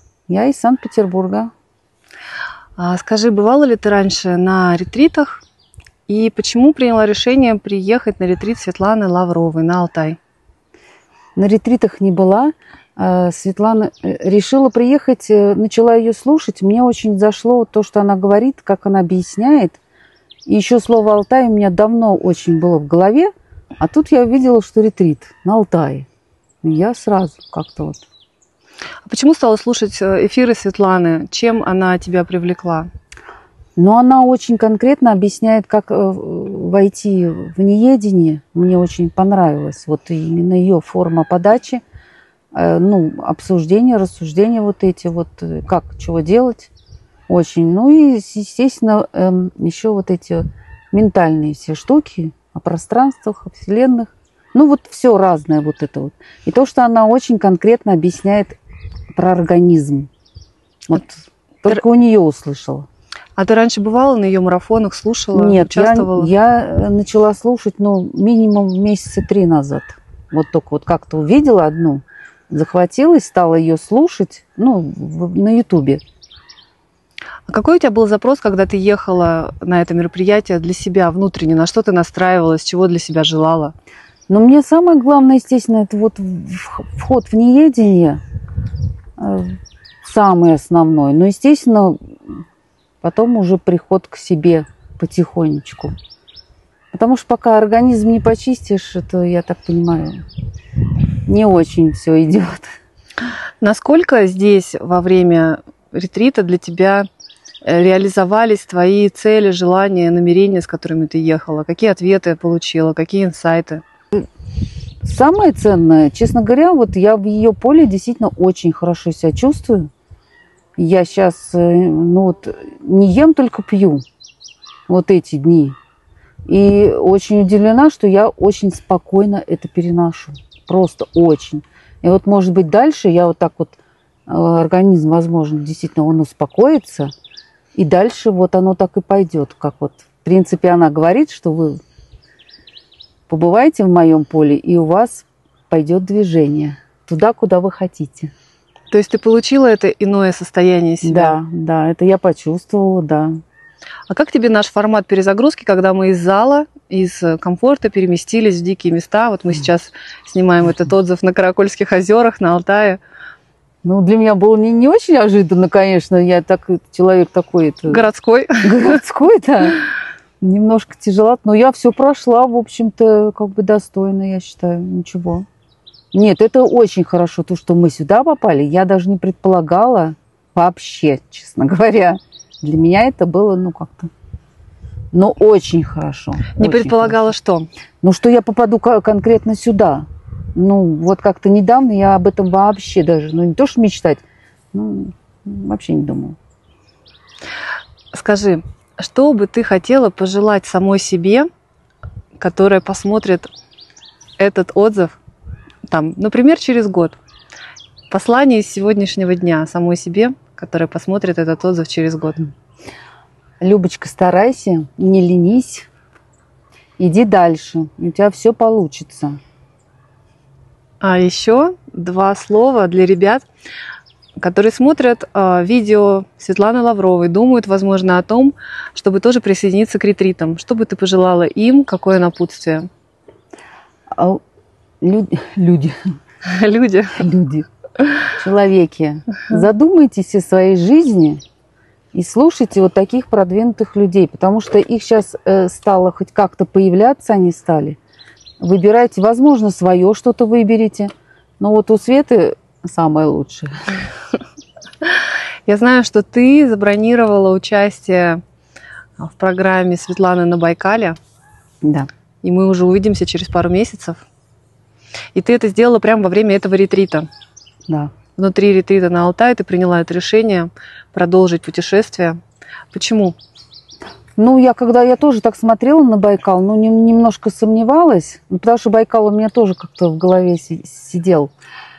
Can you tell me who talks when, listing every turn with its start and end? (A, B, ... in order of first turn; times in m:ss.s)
0:00.3-0:01.5 A
0:02.8-0:05.4 B
0:06.1-0:10.2 B
0:11.4-0:19.8 A
0:20.5-0:26.1 A
0:26.6-0:28.0 A
0:29.1-0:32.9 B
0:33.8-0:41.8 A
0:42.5-0:46.7 A
0:47.3-0:58.6 A
0:59.1-1:00.1 A
1:00.9-1:02.9 A
1:03.4-1:06.3 B
1:05.3-1:16.0 A
1:17.5-1:23.8 B
1:24.3-1:28.2 A
1:29.2-1:32.0 A
1:33.0-1:36.0 A
1:36.9-1:40.2 A
1:41.2-1:42.7 A
1:43.6-1:47.1 B
1:47.6-1:53.8 B
1:55.0-1:59.9 A
2:00.8-2:04.0 A
2:04.9-2:05.8 A
2:06.5-2:17.1 A
2:17.8-2:21.8 A
2:23.3-2:28.3 A
2:28.9-2:31.4 B
2:31.0-2:33.4 A
2:34.1-2:43.0 B
2:43.8-2:48.0 A
2:47.9-2:49.0 B
2:48.6-2:49.9 A
2:50.4-2:55.5 A
2:56.1-3:04.1 A
3:05.1-3:07.2 A
3:06.5-3:07.7 B
3:08.0-3:16.4 A
3:18.1-3:21.5 B
3:22.4-3:23.5 B
3:24.4-3:25.2 B
3:25.9-3:27.2 B
3:28.1-3:32.4 B
3:33.6-3:35.9 A
3:37.0-3:39.4 A
3:41.0-3:43.4 B
3:44.4-3:52.9 B
3:54.2-3:54.4 A
3:55.0-3:56.0 A
3:56.4-3:57.3 B
3:57.2-3:57.7 A
3:58.3-4:01.4 A
4:02.1-4:08.0 A
4:08.6-4:14.0 A
4:15.7-4:18.4 B
4:19.2-4:21.2 B
4:22.4-4:24.2 B
4:25.3-4:27.3 B
4:28.4-4:32.4 B
4:32.9-4:33.4 B
4:34.4-4:41.5 A